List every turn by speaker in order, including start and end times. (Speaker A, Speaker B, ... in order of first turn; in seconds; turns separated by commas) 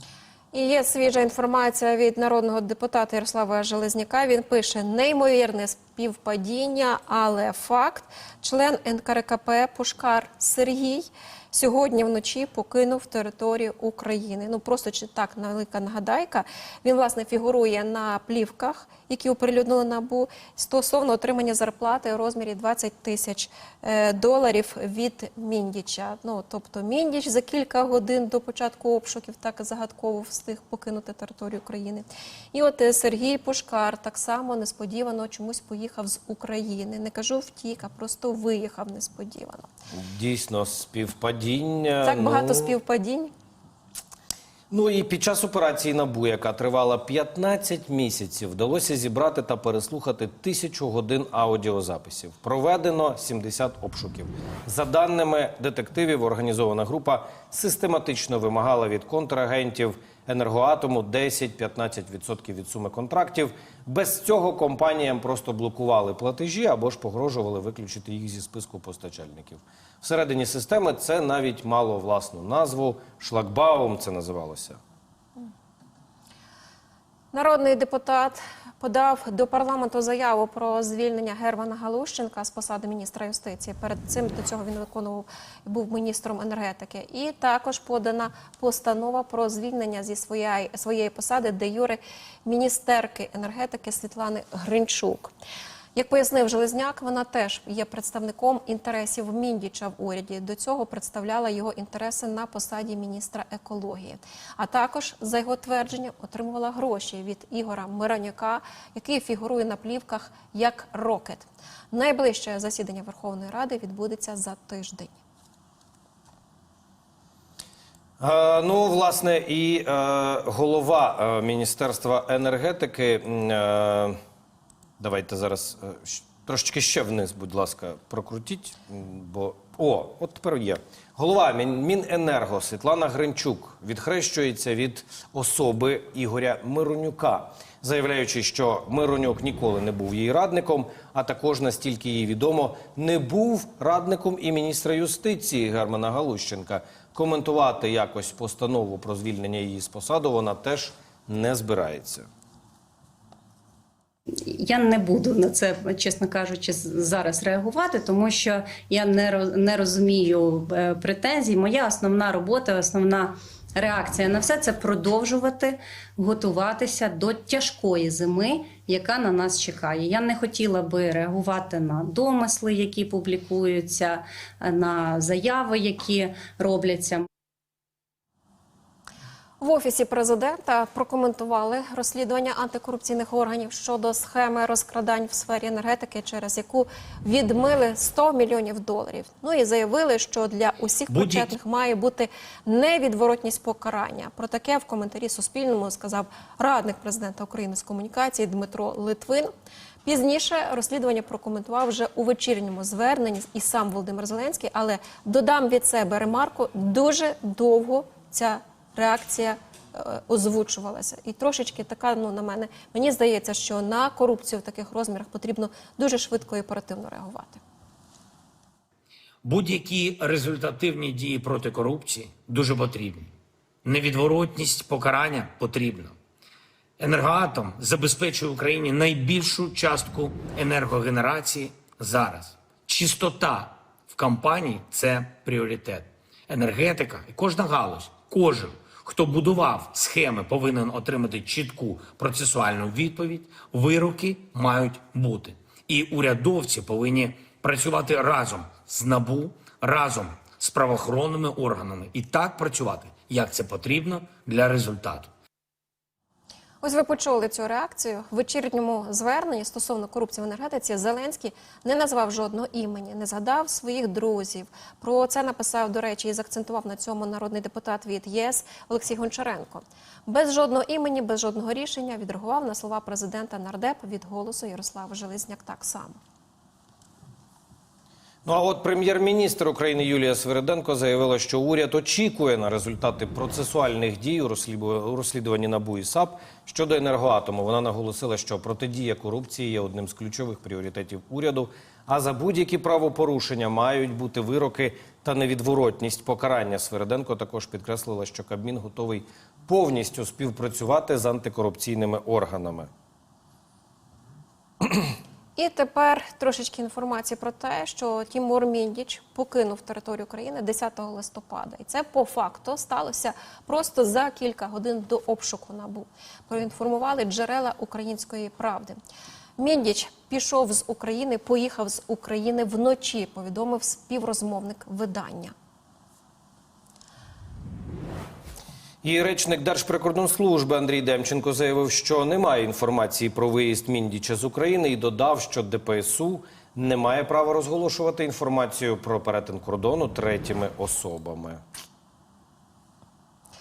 Speaker A: 0.5-39.7, Speaker B: 39.9-42.8, Speaker A: 42.0-43.3, Speaker B: 44.7-74.8, Speaker A: 77.3-95.3, Speaker A: 95.9-115.2, Speaker B: 118.2-124.2, Speaker B: 125.0-152.3, Speaker C: 154.4-177.2, Speaker A: 179.6-199.5, Speaker D: 191.1-191.6, Speaker A: 200.0-217.6, Speaker D: 219.4-223.3, Speaker D: 223.8-226.2, Speaker D: 227.0-255.3, Speaker A: 256.8-276.2, Speaker B: 278.4-302.9, Speaker A: 305.6-319.0, Speaker A: 319.6-325.5, Speaker B: 329.0-341.6